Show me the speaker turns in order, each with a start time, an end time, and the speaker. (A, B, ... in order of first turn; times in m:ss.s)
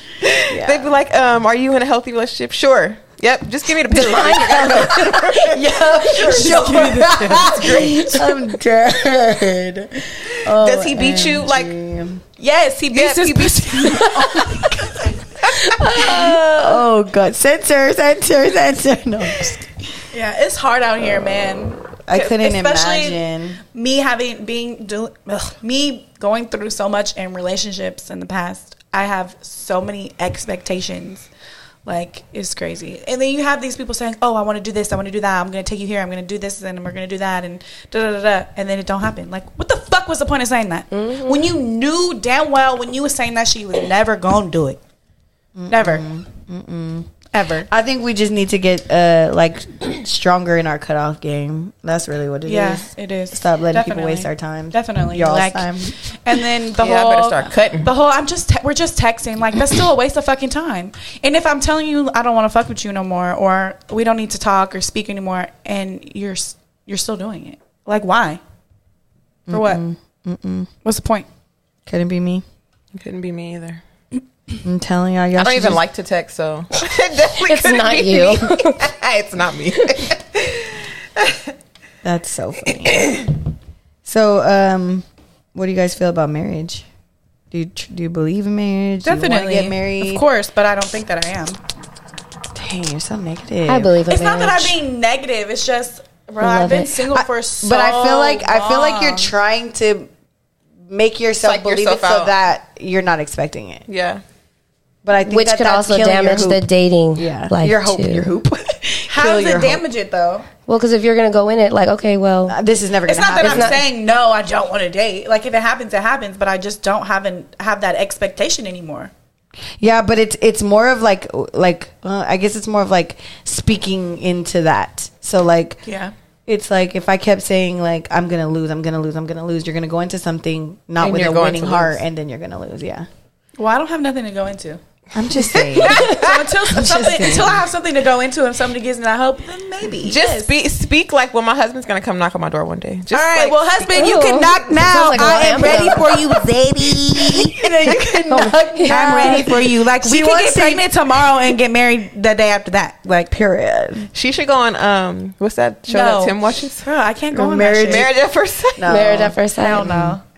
0:00.2-0:08.2 A
0:00.5-0:00.9 B
0:03.9-0:05.2 C
0:04.0-0:12.2 B
0:06.2-0:08.2 D
0:10.4-0:11.7 A
0:12.4-0:14.7 D
0:12.9-0:14.2 A
0:14.0-0:15.2 B
0:15.6-0:16.4 C
0:15.8-0:19.7 B
0:16.0-0:16.6 D
0:20.1-0:23.2 D
0:22.1-0:23.6 B
0:23.7-0:31.3 D
0:31.8-0:44.8 D
0:40.9-0:41.5 C
0:45.6-0:47.1 B
0:45.7-0:46.0 D
0:47.3-0:47.7 D
0:47.7-0:56.0 B
0:52.4-1:08.4 D
0:56.8-0:57.9 A
1:09.5-1:10.7 B
1:09.5-1:09.8 D
1:10.8-1:11.3 D
1:11.9-1:12.4 B
1:12.9-1:13.8 A
1:14.6-1:15.8 B
1:15.4-1:21.4 A
1:17.4-1:18.8 C
1:22.0-1:23.3 B
1:24.0-1:26.8 B
1:27.5-1:30.2 B
1:29.0-1:31.6 D
1:32.5-1:33.9 B
1:33.7-1:34.8 C
1:34.1-1:39.3 D
1:36.4-1:36.9 C
1:37.1-1:40.1 B
1:40.9-1:43.8 B
1:41.4-1:42.3 A
1:43.9-1:44.2 A
1:45.0-1:46.6 B
1:45.2-1:48.3 C
1:47.2-1:49.8 B
1:49.1-1:50.5 D
1:50.7-1:52.6 C
1:52.5-1:53.8 B
1:53.0-1:59.1 D
1:53.4-1:53.8 C
1:59.8-2:05.8 B
2:05.8-2:06.1 D
2:06.5-2:13.1 B
2:11.0-2:12.0 A
2:13.6-2:14.8 D
2:15.1-2:16.2 B
2:15.7-2:16.5 A
2:15.8-2:20.5 D
2:16.7-2:17.6 B
2:20.0-2:24.1 A
2:23.1-2:33.0 D
2:23.9-2:26.0 C
2:24.7-2:30.9 B
2:28.3-2:29.5 C
2:33.0-2:34.1 B
2:34.1-2:36.8 A
2:35.9-2:38.1 D
2:37.3-2:38.1 B
2:37.9-2:39.1 A
2:38.8-2:40.2 B
2:38.9-2:40.0 C
2:39.6-2:40.2 D